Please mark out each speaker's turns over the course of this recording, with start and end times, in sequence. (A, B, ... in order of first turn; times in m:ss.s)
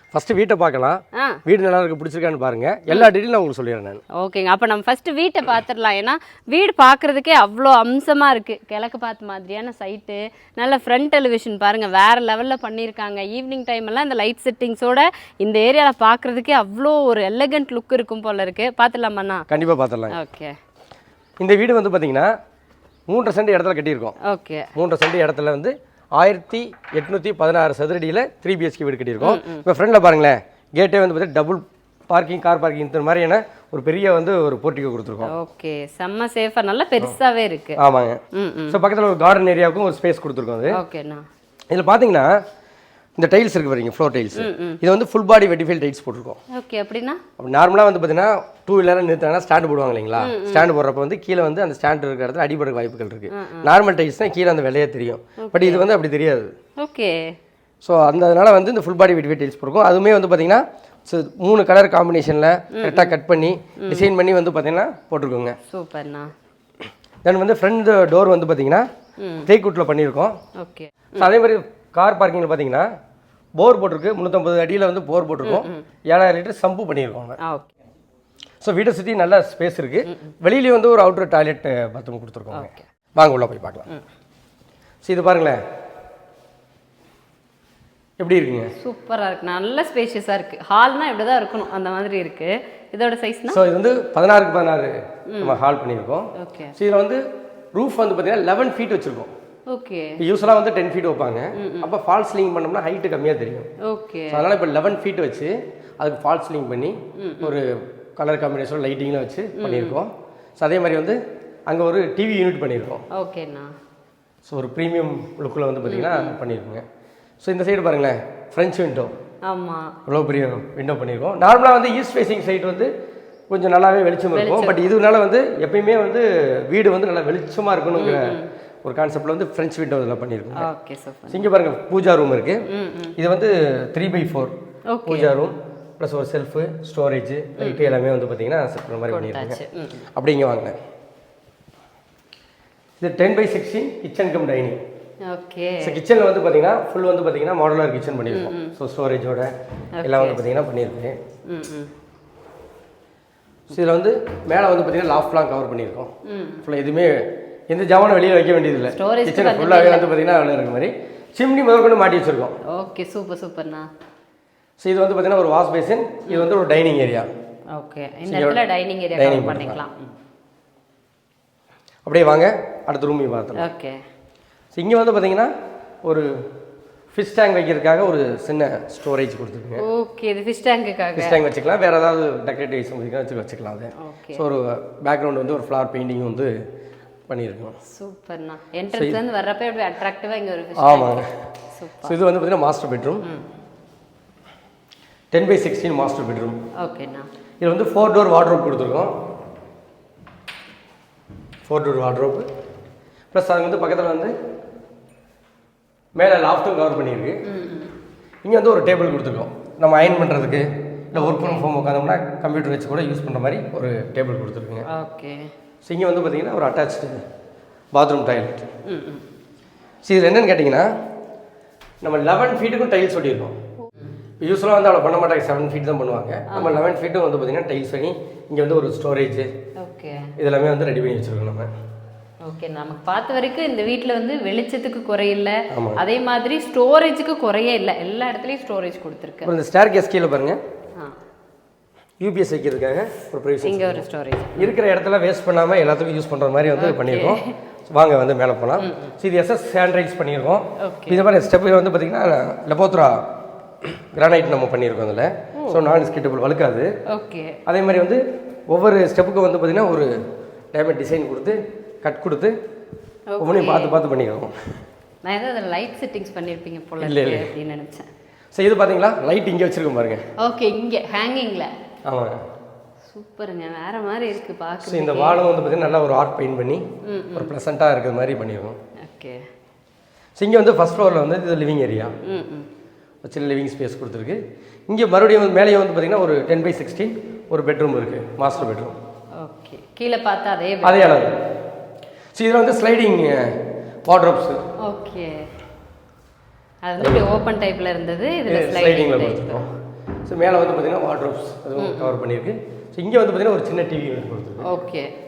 0:00.1-0:04.0 A
0:04.1-0:19.4 B
0:19.5-0:20.2 A
0:20.1-0:20.5 B
0:21.4-0:22.3 A
0:23.1-0:24.1 A
0:24.2-0:24.7 B
0:24.7-0:35.3 A
0:29.2-0:29.6 B
0:35.2-0:37.8 B
0:37.8-0:40.8 A
0:38.3-0:38.8 B
0:40.7-0:41.2 B
0:41.7-0:42.3 A
0:43.2-0:46.4 A
0:44.4-0:44.8 B
0:46.5-0:47.2 B
0:47.4-0:56.5 A
0:50.2-0:50.7 B
0:53.3-0:53.7 B
0:55.4-0:55.8 B
0:56.8-0:57.4 B
0:57.8-1:05.6 A
1:02.7-1:03.2 B
1:03.8-1:04.1 B
1:05.7-1:06.3 B
1:07.2-1:08.8 A
1:09.2-1:09.5 B
1:09.4-1:10.4 A
1:10.6-1:11.2 B
1:11.2-1:12.9 A
1:13.6-1:17.4 A
1:15.4-1:15.8 B
1:17.4-1:17.7 B
1:18.6-1:23.9 A
1:22.5-1:22.8 B
1:25.0-1:25.6 A
1:28.2-1:28.7 A
1:28.8-1:33.6 B
1:33.5-1:37.2 A
1:35.3-1:35.6 B
1:36.4-1:36.7 B
1:37.7-1:39.3 A
1:39.7-1:40.2 B
1:40.2-1:43.7 A
1:41.6-1:41.9 B
1:43.8-1:44.4 B
1:44.3-1:51.2 A
1:47.2-1:47.6 B
1:49.6-1:50.0 B
1:51.7-1:53.0 A
1:53.1-1:53.7 B
1:54.4-1:56.8 A
1:55.8-1:56.4 B
1:57.4-1:59.1 A
1:59.4-1:59.9 B
2:00.0-2:02.9 A
2:03.5-2:10.7 A
2:04.3-2:04.9 B
2:07.9-2:08.5 B
2:10.6-2:11.4 B
2:11.3-2:12.6 A
2:12.7-2:13.2 B
2:13.2-2:14.5 A
2:14.9-2:15.3 B
2:15.0-2:19.6 A
2:17.6-2:17.9 B
2:19.1-2:20.0 B
2:20.1-2:20.8 A
2:23.0-2:24.8 A
2:25.3-2:26.0 B
2:25.8-2:31.2 A
2:28.3-2:28.8 B
2:29.9-2:30.4 B
2:31.5-2:31.9 B
2:33.7-2:36.1 A
2:36.2-2:36.6 B
2:36.6-2:42.6 A
2:38.9-2:40.1 B
2:42.6-2:43.9 B
2:44.8-2:47.3 A
2:47.7-2:50.1 B
2:48.2-2:48.6 A
2:49.2-2:49.8 A
2:52.0-2:53.7 A
2:53.6-2:54.0 B
2:54.7-2:55.5 A
2:56.0-2:56.4 A
2:57.1-2:59.8 A
2:59.8-3:01.4 B
3:01.1-3:06.5 A
3:04.0-3:04.4 B
3:07.3-3:07.8 A
3:07.8-3:11.2 B
3:08.9-3:09.2 A
3:10.8-3:11.4 A
3:11.7-3:12.1 B
3:12.0-3:13.2 A
3:15.3-3:16.6 A
3:16.8-3:17.2 B
3:17.6-3:19.2 A
3:21.7-3:22.4 A
3:23.3-3:24.3 A
3:26.2-3:27.4 A
3:27.4-3:27.9 B
3:28.4-3:34.8 A
3:31.2-3:31.6 B
3:34.9-3:35.5 B
3:35.8-3:37.2 A
3:37.9-3:38.6 A
3:38.8-3:39.2 B
3:40.0-3:40.9 A
3:42.0-3:43.6 A
3:44.4-3:49.5 A
3:46.5-3:46.8 B
3:49.8-3:50.3 B
3:50.4-3:51.7 A
3:52.4-3:59.5 B
3:55.7-3:56.0 A
3:59.4-4:00.6 A
4:02.2-4:04.0 A
4:03.6-4:04.7 B
4:04.6-4:13.2 A
4:06.7-4:07.5 B
4:08.8-4:09.1 B
4:10.8-4:11.2 B
4:13.8-4:16.9 A
4:15.6-4:15.8 B
4:17.1-4:17.6 B
4:17.6-4:20.1 A
4:20.7-4:22.5 A
4:23.3-4:24.0 B
4:23.4-4:24.5 A
4:25.2-4:28.1 B
4:27.0-4:27.5 A
4:28.5-4:30.2 A
4:30.4-4:31.7 B
4:32.0-4:32.4 A
4:33.1-4:35.4 B
4:34.8-4:36.8 A
4:37.0-4:37.5 B
4:37.3-4:38.8 A
4:39.0-4:39.4 B
4:40.4-4:42.1 A
4:42.2-4:42.7 B
4:43.2-4:49.0 A
4:49.4-4:51.3 B
4:50.8-4:51.4 A
4:52.3-4:54.6 A
4:54.8-4:55.5 B
4:56.8-4:59.6 B
4:57.0-4:57.3 A
4:58.5-4:59.7 A
5:00.2-5:04.7 A
5:01.8-5:02.1 B
5:04.6-5:05.1 B